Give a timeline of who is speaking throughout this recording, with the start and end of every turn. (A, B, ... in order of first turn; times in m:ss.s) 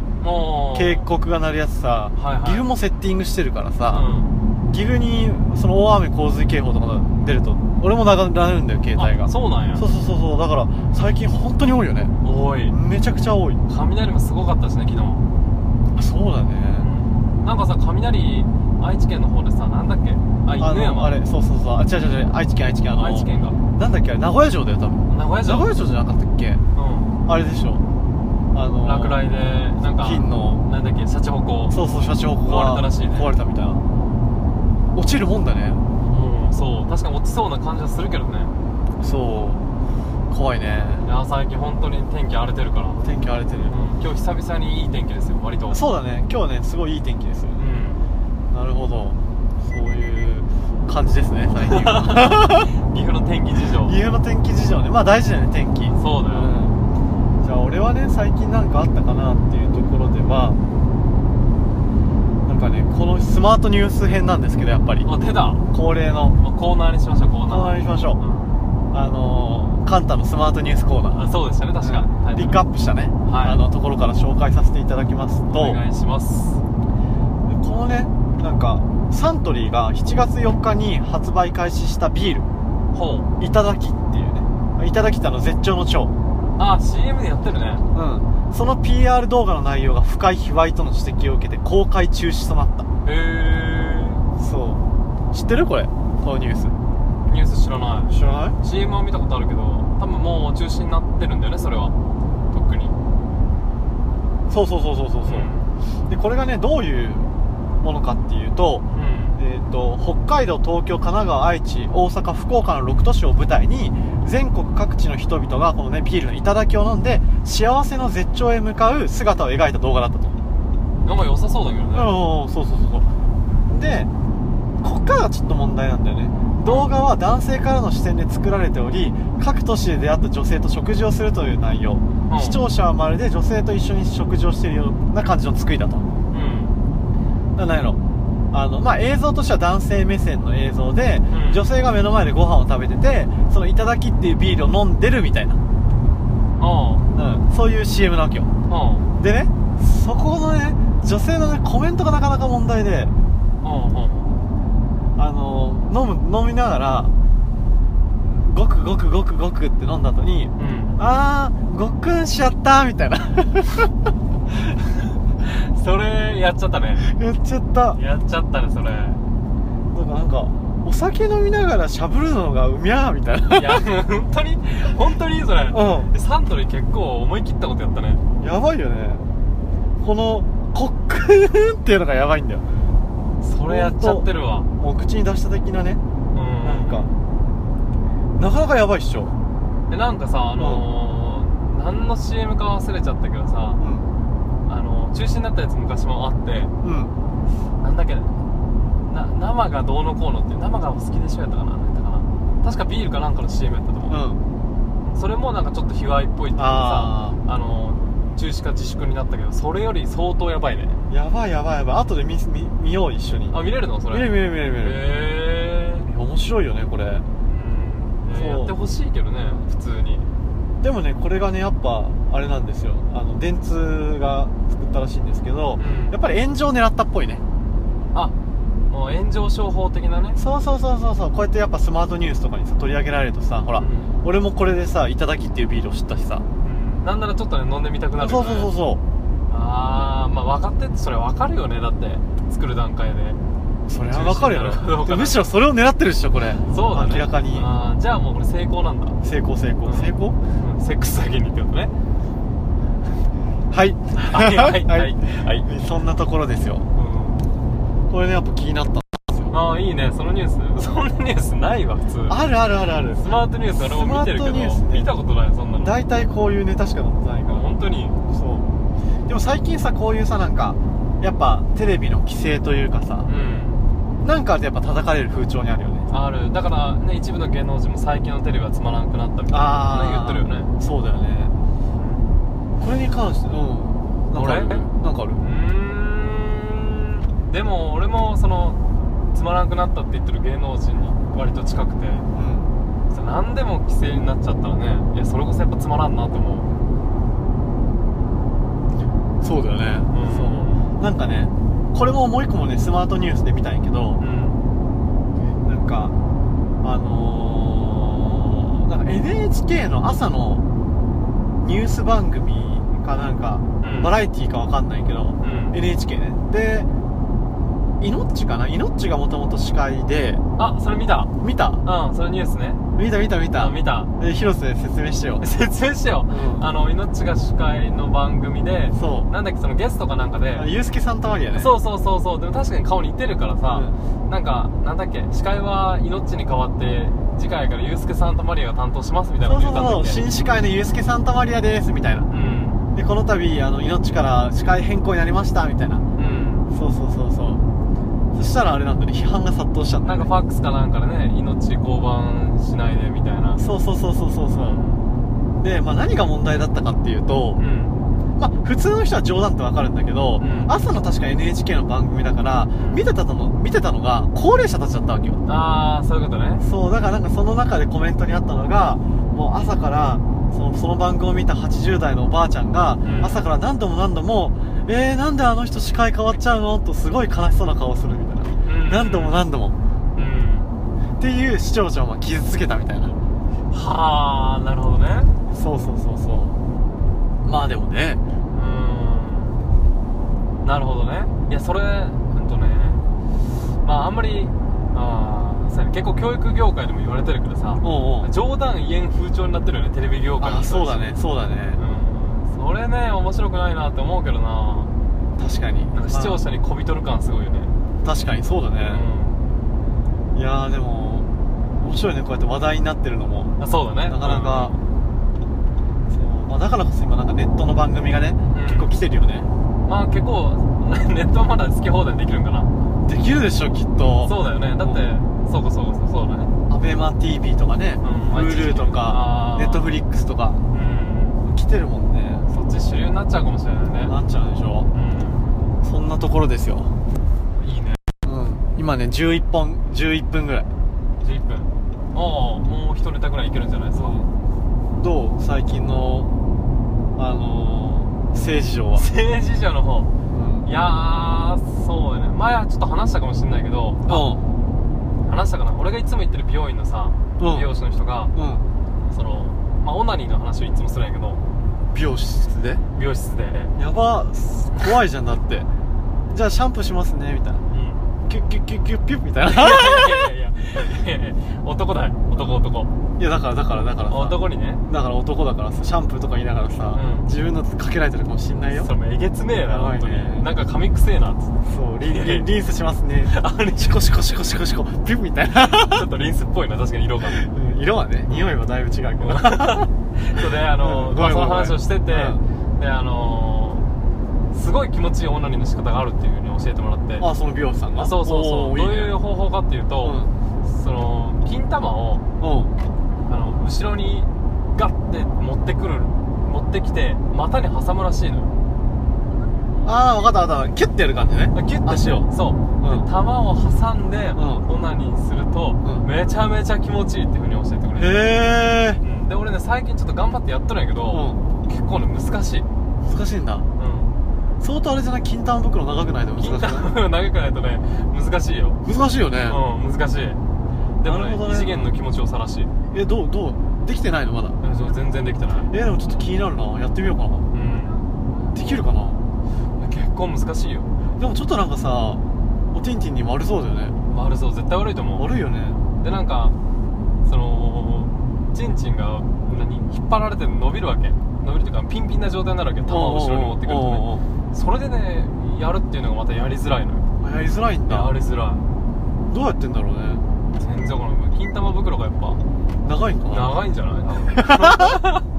0:00.2-0:01.1 A
0:00.7-0:04.0 B
0:02.2-0:02.6 A
0:03.9-0:04.3 A
0:04.7-0:12.1 B
0:08.9-0:09.8 A
0:12.2-0:12.7 A
0:12.7-0:13.6 B
0:13.7-0:15.2 A
0:16.0-0:16.9 B
0:16.8-0:21.2 A
0:20.6-0:26.6 B
0:22.9-0:23.6 A
0:25.1-0:25.7 A
0:26.8-0:27.2 A
0:27.2-0:27.8 B
0:28.5-0:29.2 B
0:28.8-0:31.8 A
0:30.0-0:30.6 B
0:31.7-0:33.8 B
0:32.4-0:33.3 A
0:34.9-0:35.8 B
0:36.0-0:38.5 A
0:39.0-0:39.6 B
0:40.3-0:41.1 B
0:41.0-0:43.0 A
0:43.0-0:43.7 B
0:43.7-0:45.8 A
0:45.7-0:47.6 B
0:47.6-0:48.0 A
0:48.5-0:52.7 B
0:51.6-0:54.0 A
0:53.8-0:56.8 B
0:55.9-0:56.5 A
0:57.4-1:00.6 B
1:02.4-1:05.1 B
1:05.0-1:05.6 A
1:05.7-1:06.4 B
1:06.4-1:08.6 A
1:07.4-1:08.2 B
1:08.9-1:11.2 B
1:11.1-1:12.6 A
1:11.8-1:15.8 B
1:13.2-1:13.6 A
1:15.5-1:16.6 A
1:17.4-1:22.5 B
1:22.9-1:23.3 A
1:23.4-1:26.1 B
1:26.6-1:27.8 A
1:27.9-1:32.9 B
1:33.0-1:34.2 A
1:34.4-1:36.8 B
1:37.3-1:41.9 A
1:38.1-1:38.6 B
1:42.5-1:42.9 A
1:44.5-1:45.5 B
1:45.2-1:45.7 A
1:46.1-1:48.8 B
1:48.9-1:49.4 A
1:49.4-2:00.4 B
2:01.0-2:02.2 A
2:01.9-2:03.1 B
2:03.7-2:04.1 B
2:04.8-2:16.0 B
2:06.6-2:06.9 A
2:12.3-2:12.6 A
2:16.3-2:16.8 A
2:17.6-2:18.0 B
2:18.5-2:25.6 B
2:21.3-2:21.6 A
2:26.6-2:27.1 A
2:27.1-2:28.5 B
2:28.7-2:29.0 A
2:29.2-2:33.1 B
2:33.6-2:34.4 A
2:35.2-2:37.1 B
2:38.2-2:43.9 B
2:40.6-2:41.0 A
2:45.4-2:47.1 A
2:47.0-2:48.0 B
2:47.9-2:49.2 A
2:49.9-2:53.8 B
2:53.5-2:58.2 A
2:55.7-2:56.1 B
2:58.4-2:59.2 B
3:00.0-3:02.6 B
3:03.4-3:04.7 A
3:03.7-3:04.3 B
3:04.8-3:06.0 B
3:06.3-3:07.1 A
3:06.6-3:07.1 B
3:08.4-3:09.3 B
3:09.9-3:13.8 A
3:10.6-3:10.8 B
3:13.8-3:14.1 B
3:14.6-3:16.7 A
3:16.8-3:17.1 B
3:17.8-3:18.4 A
3:18.9-3:24.2 A
3:24.1-3:24.4 B
3:25.1-3:31.0 A
3:26.6-3:27.4 B
3:31.1-3:33.6 B
3:33.5-3:36.1 A
3:34.1-3:35.0 B
3:36.0-3:37.2 B
3:37.5-3:40.3 A
3:38.3-3:38.7 B
3:40.8-3:47.4 B
3:45.8-3:46.1 A
3:48.9-3:50.4 A
3:50.4-3:56.4 B
3:53.7-3:54.1 A
3:56.6-3:58.7 A
3:58.2-3:59.0 B
3:59.5-4:03.4 A
4:03.9-4:07.7 B
4:04.1-4:05.5 A
4:06.7-4:09.2 A
4:09.2-4:10.4 B
4:09.8-4:11.9 A
4:13.7-4:16.9 B
4:14.1-4:15.7 A
4:16.9-4:17.4 A
4:18.1-4:19.5 B
4:19.5-4:22.4 A
4:22.3-4:23.2 B
4:23.1-4:26.0 A
4:23.8-4:25.1 B
4:25.8-4:27.7 B
4:27.4-4:28.2 A
4:28.3-4:28.7 B
4:29.3-4:33.3 B
4:33.2-4:33.8 A
4:34.2-4:36.1 B
4:36.1-4:40.7 A
4:39.5-4:41.5 B
4:41.9-4:42.3 A
4:42.8-4:45.4 B
4:44.3-4:44.9 A
4:45.4-4:48.8 A
4:49.3-4:52.2 A
4:52.3-4:52.7 B
4:53.1-4:56.7 A
4:59.4-5:04.2 B
5:00.1-5:00.9 A
5:04.2-5:04.6 A
5:05.6-5:06.1 B
5:06.8-5:10.6 B
5:11.6-5:16.9 B
5:13.8-5:14.1 A
5:15.4-5:15.8 A
5:18.0-5:20.4 B
5:20.6-5:21.3 A
5:21.4-5:21.8 B
5:21.8-5:22.8 A
5:23.0-5:25.4 B
5:23.6-5:24.1 A
5:25.4-5:30.7 A
5:26.3-5:26.6 B
5:28.9-5:29.3 B
5:30.5-5:31.7 B
5:31.5-5:40.2 A
5:33.6-5:34.0 B
5:39.4-5:42.3 B
5:42.3-5:42.8 A
5:42.9-5:46.0 B
5:46.2-5:46.7 A
5:46.7-5:47.6 B
5:48.3-5:50.3 B
5:50.0-5:53.6 A
5:53.6-5:54.8 B
5:54.5-5:55.0 A
5:55.6-5:57.6 B
5:57.6-5:58.0 A
5:58.4-6:05.4 B
6:00.4-6:00.7 A
6:02.8-6:03.0 A
6:05.4-6:06.6 A
6:06.6-6:19.7 B
6:13.0-6:13.4 A
6:18.6-6:19.4 A
6:20.1-6:20.7 A
6:21.2-6:23.1 B
6:23.7-6:25.3 A
6:25.5-6:26.6 B
6:27.4-6:28.2 B
6:28.5-6:29.6 A
6:30.6-6:33.0 A
6:33.8-6:41.2 A
6:37.8-6:38.3 B
6:40.4-6:41.8 B
6:41.8-6:44.9 A
6:45.4-6:46.4 B
6:45.9-6:47.7 A
6:48.0-6:49.0 B
6:48.8-6:49.4 A
6:50.3-6:51.3 B
6:51.8-6:53.5 B
6:53.6-6:54.8 A
6:54.1-6:54.8 B
6:56.1-6:59.5 B
6:58.5-6:58.9 A
6:59.8-7:02.7 A
7:03.0-7:05.0 B
7:04.2-7:06.5 A
7:06.7-7:10.6 B
7:08.0-7:10.0 A
7:10.7-7:11.4 A
7:11.4-7:12.5 B
7:12.5-7:14.1 A
7:14.0-7:14.9 B
7:14.9-7:15.5 A
7:15.8-7:16.9 B
7:17.6-7:18.0 A
7:18.2-7:20.7 B
7:21.2-7:24.3 A
7:24.0-7:24.3 B
7:25.0-7:26.3 B
7:27.2-7:29.1 B
7:28.9-7:30.1 A
7:30.3-7:30.7 B
7:30.6-7:34.2 A
7:34.0-7:34.4 B
7:35.2-7:38.3 A
7:37.4-7:37.7 B
7:38.3-7:38.6 B
7:39.1-7:41.4 A
7:41.9-7:42.8 B
7:42.9-7:43.7 A
7:43.8-7:45.7 B
7:46.3-7:47.6 B
7:47.7-7:48.1 A
7:48.2-7:50.3 B
7:49.4-7:52.9 A
7:53.2-7:58.9 B
7:54.1-7:54.8 A
7:56.9-7:57.3 A
7:58.7-8:01.5 A
7:59.6-8:00.5 B
8:01.6-8:06.1 B
8:02.0-8:02.5 A
8:03.3-8:04.2 A
8:05.6-8:07.5 A
8:07.4-8:09.9 B
8:08.3-8:08.5 A
8:09.2-8:13.9 A
8:10.8-8:12.4 B
8:14.5-8:17.3 A
8:17.2-8:19.1 B
8:18.0-8:22.2 A
8:20.0-8:20.3 B
8:22.4-8:22.7 B
8:23.2-8:28.5 A
8:29.8-8:32.2 B
8:31.5-8:38.4 A
8:32.8-8:33.1 B
8:34.3-8:34.6 B
8:35.8-8:36.1 B
8:38.0-8:39.0 B
8:39.0-8:42.6 A
8:41.1-8:41.4 B
8:43.0-8:43.6 B
8:43.8-8:44.1 A
8:44.6-8:46.9 B
8:46.4-8:48.8 A
8:48.8-8:49.6 B
8:49.5-8:50.4 A
8:51.0-8:52.7 A
8:51.0-8:51.9 B
8:52.9-8:54.6 B
8:54.6-8:55.7 A
8:55.7-8:57.4 B
8:57.5-8:58.0 A
8:58.5-8:59.2 B
8:59.8-9:00.9 A
9:01.2-9:04.0 B
9:04.1-9:05.3 A
9:05.2-9:05.8 B
9:06.0-9:06.6 A
9:07.2-9:17.0 A
9:12.8-9:14.2 B
9:17.2-9:18.1 B
9:17.9-9:18.6 A
9:19.3-9:20.2 B
9:20.6-9:22.4 A
9:22.8-9:23.6 B
9:23.3-9:25.2 A
9:24.3-9:25.0 B